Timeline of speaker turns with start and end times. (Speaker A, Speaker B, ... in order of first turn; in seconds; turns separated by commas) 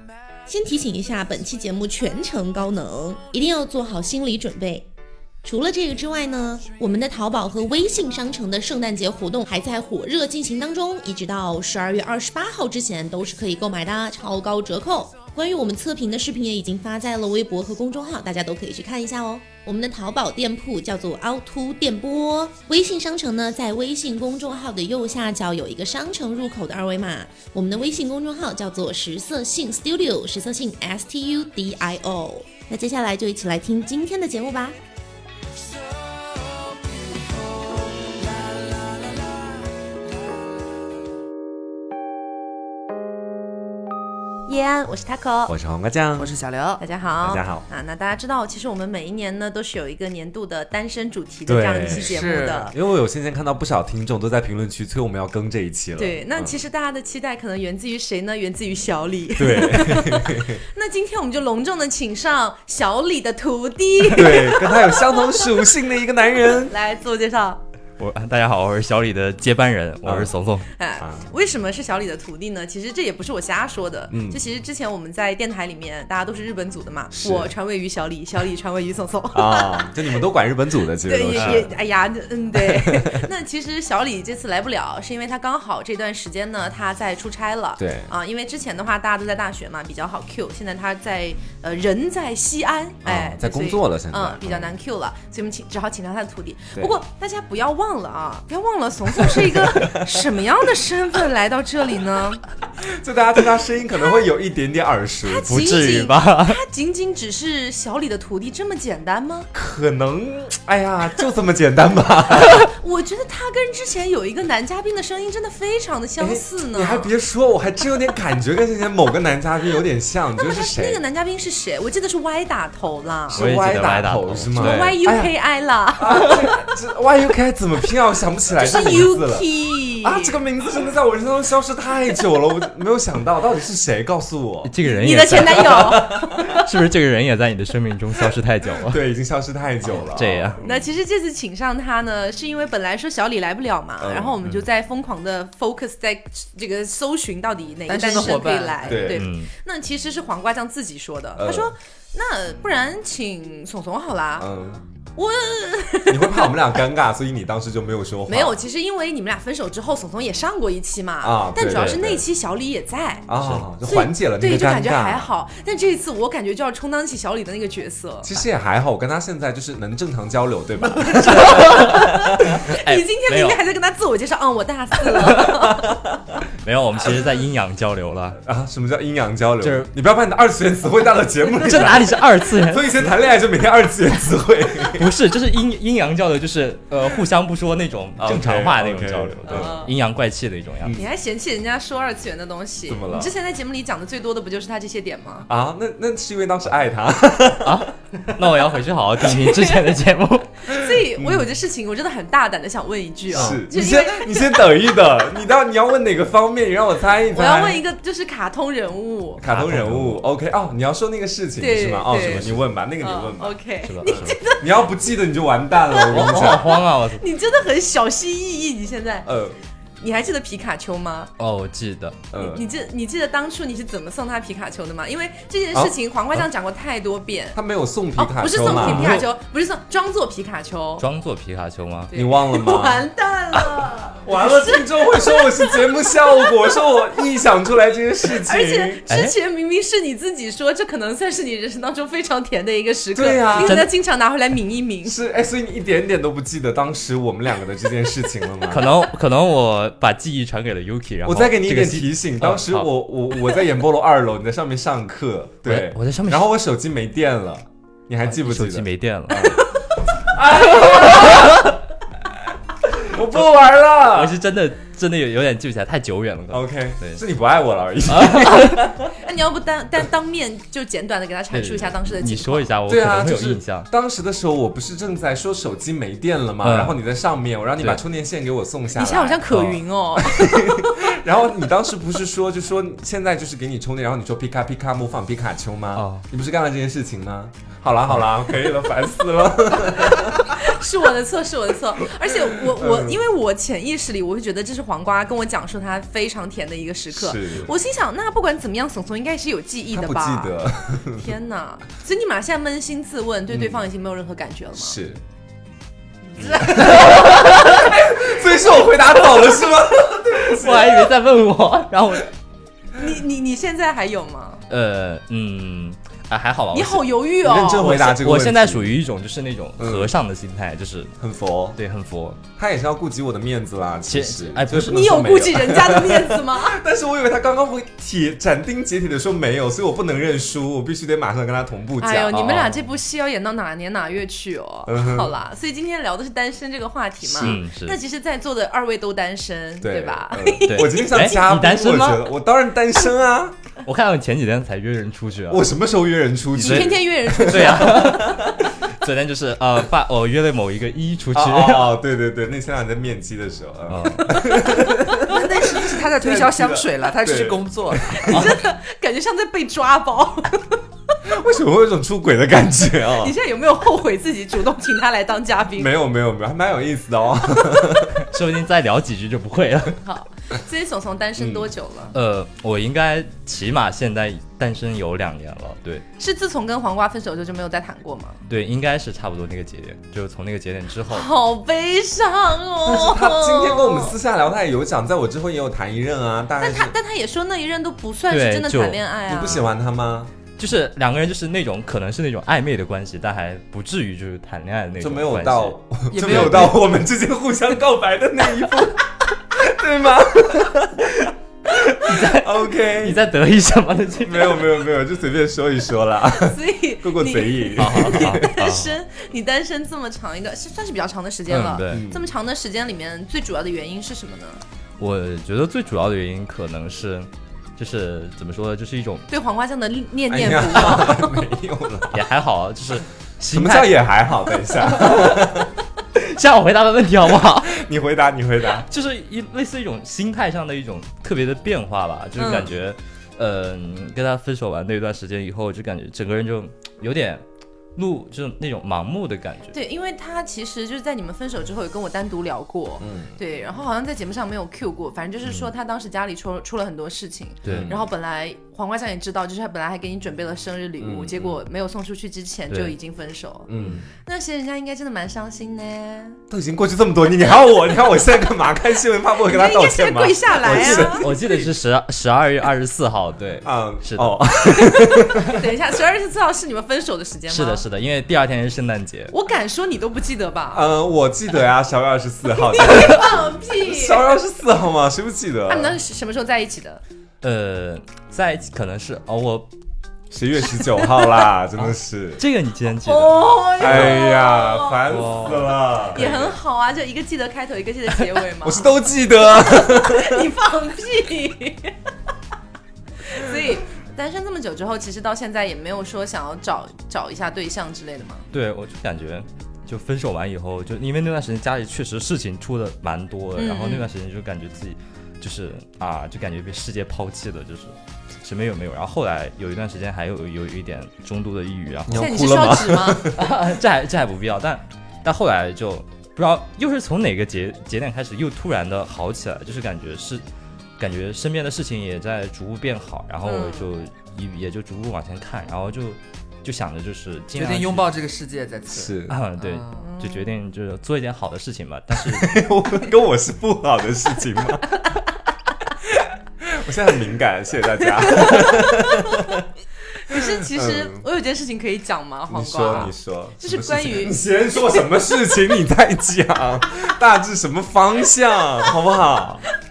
Speaker A: 0.5-4.9, Speaker A: 5.4-34.8, Speaker A: 44.5-45.5, Speaker B: 45.5-46.3, Speaker C: 46.2-46.8, Speaker D: 46.8-52.7, Speaker B: 47.2-47.6, Speaker B: 51.5-56.5, Speaker C: 51.9-52.7, Speaker D: 56.0-65.4, Speaker B: 59.4-60.6, Speaker B: 64.1-66.7, Speaker D: 66.4-67.6, Speaker E: 68.0-70.7, Speaker B: 70.0-70.3, Speaker D: 70.8-79.9, Speaker B: 71.0-71.3, Speaker B: 74.1-74.4, Speaker B: 77.1-77.5, Speaker B: 79.3-81.8, Speaker D: 81.0-102.4, Speaker E: 81.3-81.7, Speaker B: 82.5-83.3, Speaker B: 87.8-88.1, Speaker B: 93.0-94.7, Speaker B: 99.2-100.2, Speaker B: 102.8-105.8, Speaker D: 105.2-109.5, Speaker E: 105.5-106.6, Speaker B: 109.5-112.7, Speaker D: 112.3-117.1, Speaker B: 116.2-121.0, Speaker D: 120.4-123.4, Speaker B: 123.3-125.3, Speaker E: 123.3-125.0, Speaker D: 124.5-126.5, Speaker B: 126.0-129.5, Speaker D: 128.6-130.4, Speaker B: 130.0-136.5, Speaker E: 134.6-139.0, Speaker D: 134.8-136.6, Speaker B: 138.8-140.9, Speaker E: 140.0-140.6, Speaker D: 140.6-154.5, Speaker B: 144.0-144.6, Speaker C: 147.9-149.0, Speaker B: 148.8-149.2, Speaker E: 149.1-149.5, Speaker B: 151.4-151.7, Speaker B: 154.4-154.8, Speaker D: 155.2-156.6, Speaker B: 156.1-158.6, Speaker D: 158.3-163.3, Speaker B: 161.2-162.2, Speaker E: 161.7-162.0, Speaker B: 163.3-165.3, Speaker E: 163.4-163.7, Speaker D: 163.8-168.3, Speaker B: 168.2-172.6, Speaker D: 171.0-176.0, Speaker E: 171.1-172.1, Speaker E: 172.6-173.6, Speaker E: 175.2-175.6, Speaker E: 176.6-178.4, Speaker B: 178.4-185.1, Speaker E: 179.6-179.9, Speaker E: 181.6-183.1, Speaker E: 184.9-191.0, Speaker B: 188.2-189.8, Speaker D: 189.4-189.9, Speaker B: 190.8-191.1, Speaker D: 190.9-195.5, Speaker B: 192.9-193.3, Speaker B: 195.5-197.9, Speaker E: 197.6-200.5, Speaker D: 199.3-199.9, Speaker D: 200.7-204.8, Speaker B: 200.7-201.4, Speaker B: 203.3-207.8, Speaker D: 207.3-209.4, Speaker B: 209.4-216.7, Speaker E: 209.4-210.2, Speaker D: 211.6-212.4, Speaker E: 212.1-212.7, Speaker D: 213.0-214.9, Speaker E: 213.8-214.4, Speaker D: 215.9-219.3, Speaker E: 216.1-217.2, Speaker B: 219.2-219.6, Speaker D: 220.0-221.3, Speaker E: 221.4-222.2, Speaker B: 222.3-222.6, Speaker D: 222.3-227.6, Speaker B: 227.5-229.2, Speaker D: 228.2-231.0, Speaker E: 228.6-229.3, Speaker E: 231.0-232.1, Speaker D: 232.1-236.9, Speaker B: 232.1-233.1, Speaker B: 234.1-239.0, Speaker D: 238.2-245.2, Speaker E: 239.1-239.3, Speaker B: 243.1-243.8, Speaker E: 243.5-243.9, Speaker B: 245.0-248.9, Speaker E: 248.7-252.9, Speaker B: 251.2-261.6, Speaker E: 255.6-256.5, Speaker E: 258.2-259.6, Speaker E: 260.8-261.5, Speaker B: 263.0-264.4, Speaker E: 264.0-267.2, Speaker B: 266.5-269.1, Speaker E: 268.1-268.8, Speaker D: 269.1-272.7, Speaker E: 271.5-273.9, Speaker B: 272.9-279.4, Speaker E: 276.6-277.0, Speaker D: 278.9-281.1, Speaker E: 279.5-279.8, Speaker B: 280.2-290.7, Speaker E: 285.9-286.2, Speaker D: 290.1-304.9, Speaker B: 292.3-293.2, Speaker B: 297.1-297.7, Speaker B: 299.9-301.3, Speaker B: 303.5-303.8, Speaker B: 304.8-305.2, Speaker D: 306.4-307.2, Speaker B: 306.4-311.1, Speaker E: 310.3-312.3, Speaker D: 312.9-314.6, Speaker E: 314.7-317.2, Speaker D: 316.7-318.1, Speaker B: 317.4-318.9, Speaker E: 317.7-321.1, Speaker B: 319.8-320.1, Speaker B: 321.2-321.8, Speaker E: 321.8-322.4, Speaker B: 322.6-332.4, Speaker E: 324.1-325.1, Speaker D: 324.7-326.8, Speaker D: 332.0-341.0, Speaker E: 332.3-332.9, Speaker B: 334.9-335.3, Speaker B: 337.3-337.6, Speaker E: 337.3-338.0, Speaker B: 339.8-343.6, Speaker E: 340.6-342.3, Speaker E: 343.8-345.7, Speaker B: 345.5-348.6, Speaker E: 346.5-351.9, Speaker D: 346.6-348.2, Speaker B: 351.3-358.4, Speaker E: 353.9-354.3, Speaker D: 354.3-355.9, Speaker C: 355.3-358.3, Speaker D: 358.2-360.8, Speaker B: 361.2-363.3, Speaker D: 363.1-365.9, Speaker B: 365.8-368.2, Speaker E: 368.1-370.0, Speaker D: 370.0-372.1, Speaker B: 371.4-371.7, Speaker E: 372.1-376.0, Speaker D: 376.2-378.4, Speaker E: 378.5-381.3, Speaker D: 381.1-384.1, Speaker B: 382.8-386.9, Speaker D: 386.6-389.6, Speaker E: 388.3-389.0, Speaker B: 389.3-390.3, Speaker E: 390.6-396.8, Speaker B: 395.0-403.2, Speaker C: 396.1-396.7, Speaker E: 402.0-404.7, Speaker B: 404.2-408.5, Speaker D: 406.3-414.6, Speaker E: 407.8-409.0, Speaker E: 411.5-412.1, Speaker B: 411.9-412.2, Speaker E: 415.0-419.3, Speaker D: 419.3-421.4, Speaker B: 420.3-422.2, Speaker E: 422.1-425.6, Speaker B: 423.5-425.7, Speaker E: 426.1-427.8, Speaker B: 427.6-428.9, Speaker E: 428.8-437.4, Speaker D: 432.4-432.7, Speaker E: 437.9-439.8, Speaker D: 439.7-453.7, Speaker B: 443.0-443.4, Speaker E: 447.6-447.9, Speaker B: 447.7-448.0, Speaker B: 451.0-451.6, Speaker E: 452.7-452.9, Speaker B: 453.7-454.1, Speaker D: 454.2-456.4, Speaker B: 456.5-461.6, Speaker D: 459.5-461.3, Speaker E: 460.7-464.4, Speaker B: 463.6-465.6, Speaker D: 464.6-467.8, Speaker E: 467.5-469.3, Speaker D: 469.3-470.8, Speaker B: 470.7-476.0, Speaker D: 472.6-474.3, Speaker D: 475.7-477.0, Speaker E: 477.4-479.7, Speaker B: 480.3-482.4, Speaker E: 481.8-484.2, Speaker D: 483.0-485.0, Speaker B: 483.8-486.5, Speaker E: 485.1-486.4, Speaker D: 486.1-491.9, Speaker B: 488.6-490.4, Speaker D: 493.2-498.5, Speaker E: 498.5-512.3, Speaker D: 503.6-504.1, Speaker B: 512.1-513.4, Speaker D: 512.1-513.3, Speaker E: 513.3-520.4, Speaker E: 521.0-528.1, Speaker D: 523.5-523.9, Speaker C: 527.5-530.1, Speaker B: 528.9-529.4, Speaker E: 529.3-532.5, Speaker D: 530.0-530.5, Speaker B: 532.1-535.0, Speaker B: 536.6-539.6, Speaker D: 538.0-539.6, Speaker D: 540.2-545.0, Speaker B: 540.3-541.2, Speaker B: 542.5-549.6